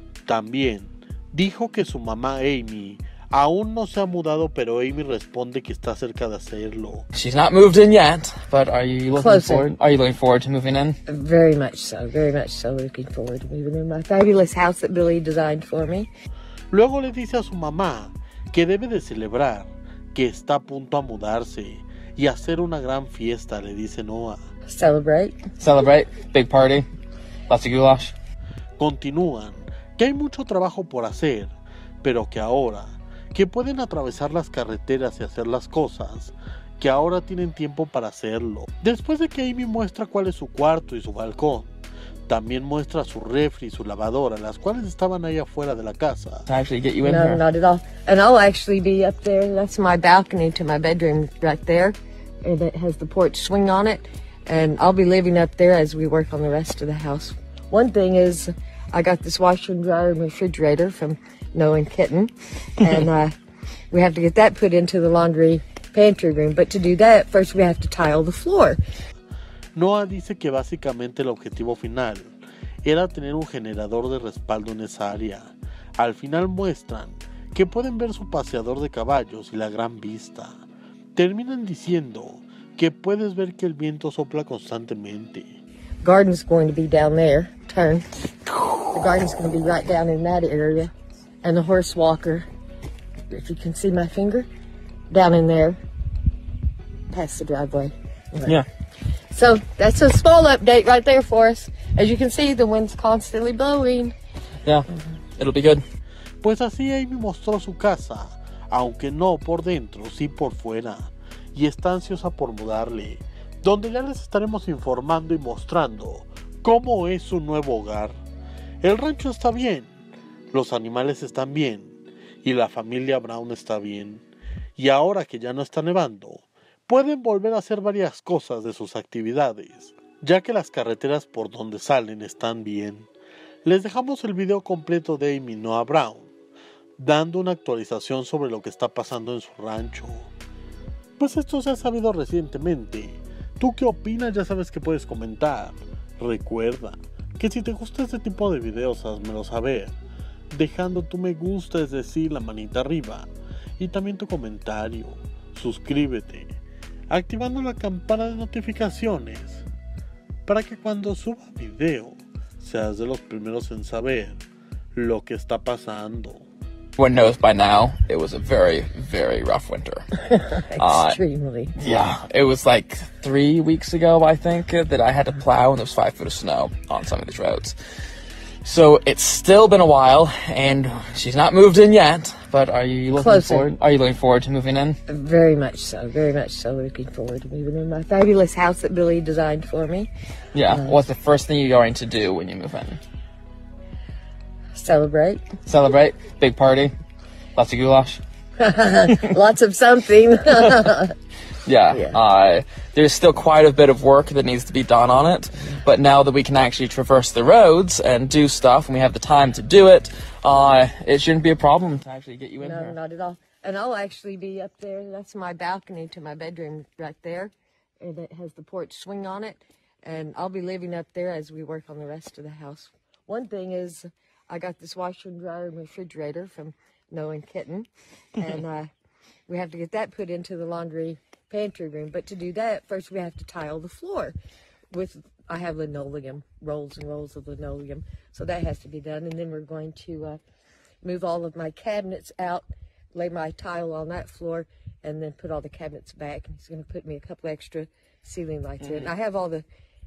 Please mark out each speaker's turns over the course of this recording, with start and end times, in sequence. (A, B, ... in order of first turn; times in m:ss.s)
0:00.3-0:07.0 A
0:07.1-0:11.0 B
0:09.2-0:09.7 C
0:11.1-0:16.1 C
0:16.7-0:24.4 A
0:24.7-0:25.4 C
0:25.6-0:26.9 B
0:27.5-0:28.1 B
0:28.8-0:41.7 A
0:42.3-0:46.5 A
0:46.5-0:47.4 B
0:47.0-1:03.3 C
1:03.9-1:08.8 C
1:09.8-1:20.6 A
1:21.2-1:25.6 A
1:26.0-1:28.1 C
1:28.9-1:30.9 C
1:31.4-1:32.5 C
1:33.3-1:34.5 C
1:35.1-1:35.8 C
1:37.1-1:38.6 C
1:39.3-1:44.1 C
1:44.6-1:45.8 B
1:46.4-1:58.1 A
1:58.8-2:00.0 A
2:00.5-2:04.2 A
2:04.8-2:13.1 A
2:13.6-2:16.3 A
2:17.0-2:20.3 A
2:21.2-2:30.0 A
2:30.5-2:39.6 A
2:40.5-2:44.4 A
2:44.9-2:46.5 A
2:47.0-2:50.1 B
2:50.2-2:51.7 C
2:50.8-2:51.2 B
2:51.8-2:57.8 B
2:58.6-3:05.0 B
3:03.2-3:03.7 C
3:05.1-3:10.1 C
3:10.5-3:13.0 B
3:10.7-3:11.0 C
3:14.8-3:15.4 C
3:15.7-3:16.9 B
3:17.6-3:18.2 B
3:18.6-3:21.2 C
3:21.6-3:33.0 B
3:21.9-3:22.2 C
3:32.6-3:48.9 C
3:49.5-3:54.3 C
3:54.9-4:00.4 C
4:01.0-4:09.6 C
4:08.8-4:09.1 B